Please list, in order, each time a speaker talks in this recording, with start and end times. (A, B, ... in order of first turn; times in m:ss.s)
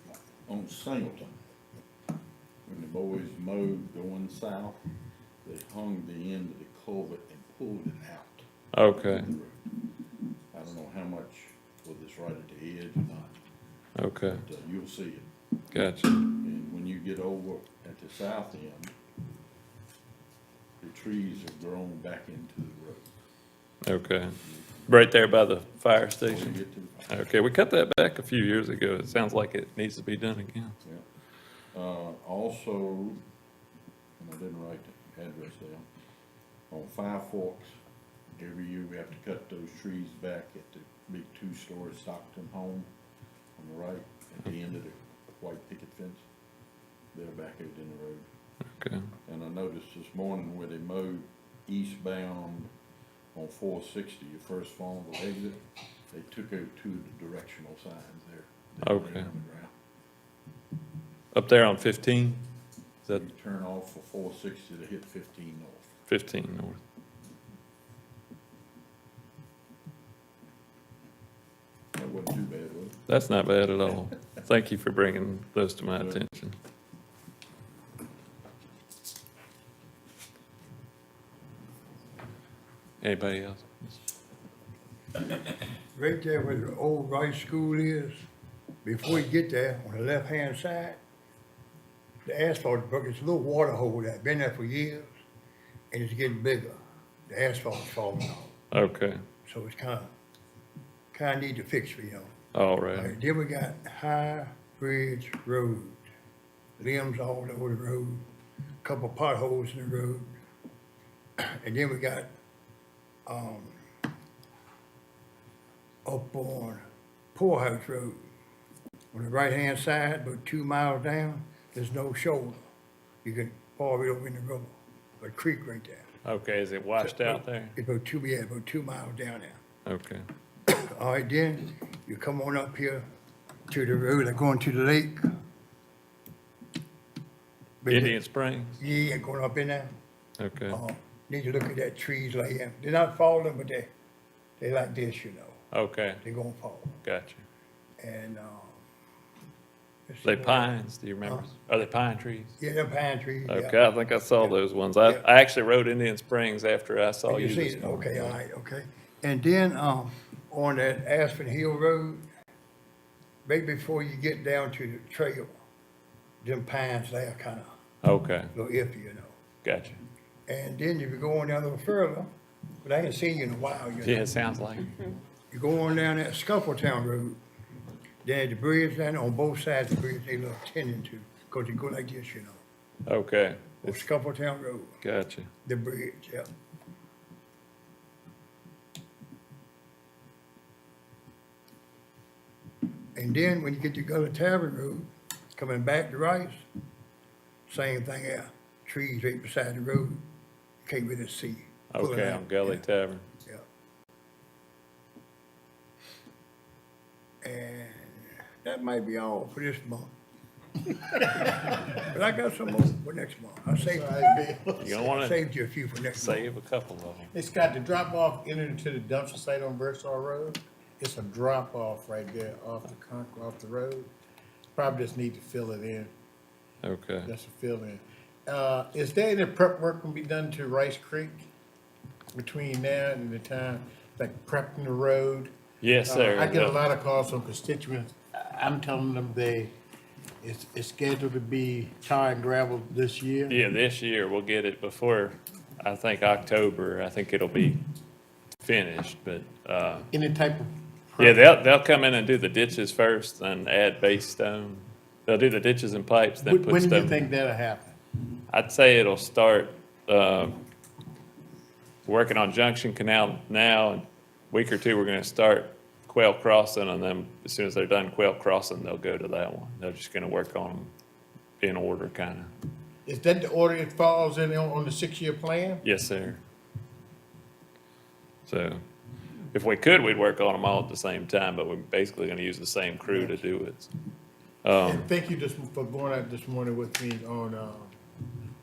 0:00.5-0:01.4 A
0:02.7-0:04.8 A
0:05.4-0:08.4 A
0:08.7-0:09.3 B
0:09.0-0:09.6 A
0:10.5-0:13.3 A
0:14.0-0:14.4 B
0:14.2-0:15.3 A
0:15.7-0:16.3 B
0:16.4-0:18.9 A
0:20.8-0:23.0 A
0:23.8-0:30.8 B
0:26.2-0:27.1 A
0:31.7-0:33.2 A
0:34.2-0:35.8 A
0:36.7-0:37.7 A
0:38.4-0:42.9 A
0:43.6-0:46.2 A
0:47.1-0:48.3 A
0:48.7-0:49.1 B
0:49.3-0:52.7 A
0:53.3-0:59.7 A
0:58.8-0:59.3 B
1:01.3-1:02.5 B
1:03.1-1:05.9 A
1:06.1-1:06.8 B
1:11.9-1:13.0 A
1:13.1-1:16.6 B
1:23.0-1:23.9 B
1:25.9-1:28.2 C
1:28.8-1:31.0 C
1:32.2-1:35.1 C
1:35.9-1:36.8 C
1:37.3-1:38.5 C
1:38.7-1:39.2 B
1:39.4-1:40.1 C
1:41.1-1:42.3 C
1:42.5-1:43.1 B
1:42.9-1:46.0 C
1:46.8-1:48.2 C
1:48.8-1:50.3 C
1:51.4-1:52.3 C
1:53.3-1:53.8 C
1:56.0-1:56.8 C
1:57.3-1:58.2 C
1:59.1-2:02.6 C
2:03.2-2:06.1 C
2:06.2-2:07.7 B
2:07.0-2:09.6 C
2:09.9-2:10.2 B
2:10.7-2:13.0 C
2:13.7-2:15.2 C
2:17.8-2:18.2 C
2:17.9-2:18.8 B
2:18.8-2:19.9 C
2:20.4-2:20.8 B
2:20.7-2:23.9 C
2:24.6-2:25.6 C
2:25.7-2:26.2 B
2:26.2-2:27.0 C
2:27.0-2:27.4 B
2:28.0-2:28.8 C
2:30.1-2:31.5 C
2:30.2-2:32.6 B
2:32.6-2:33.8 C
2:33.5-2:38.4 B
2:37.3-2:42.2 C
2:43.5-2:45.5 C
2:46.4-2:47.7 C
2:48.0-2:48.5 B
2:48.6-2:49.3 C
2:49.6-2:50.0 B
2:50.5-2:52.3 C
2:52.8-2:54.3 C
2:54.0-2:55.0 B
2:55.5-2:57.4 C
2:58.2-3:02.6 C
3:03.1-3:04.0 B
3:03.8-3:05.0 C
3:05.0-3:05.5 B
3:05.6-3:06.5 C
3:13.2-3:16.6 C
3:17.7-3:20.2 C
3:20.8-3:22.8 C
3:21.9-3:23.2 B
3:27.4-3:30.1 C
3:31.2-3:34.4 C
3:33.8-3:35.0 D
3:34.8-3:35.4 B
3:35.0-3:36.4 C
3:36.1-3:37.3 B
3:37.3-3:44.1 D
3:44.8-3:46.1 D
3:46.8-3:47.3 B
3:47.2-3:51.5 D
3:52.3-3:55.5 D
3:55.8-3:56.8 B
3:56.1-3:59.7 D
4:00.4-4:03.6 D
4:03.5-4:07.8 B
4:08.6-4:10.1 B
4:10.1-4:11.4 D
4:11.2-4:17.2 B
4:16.4-4:17.9 D
4:18.5-4:20.6 B
4:22.0-4:30.9 B
4:31.6-4:32.5 B
4:33.0-4:35.8 D
4:35.8-4:36.4 B
4:38.4-4:38.8 B
4:39.5-4:43.9 B
4:43.1-4:43.3 D
4:44.6-4:45.1 B
4:44.8-4:47.9 D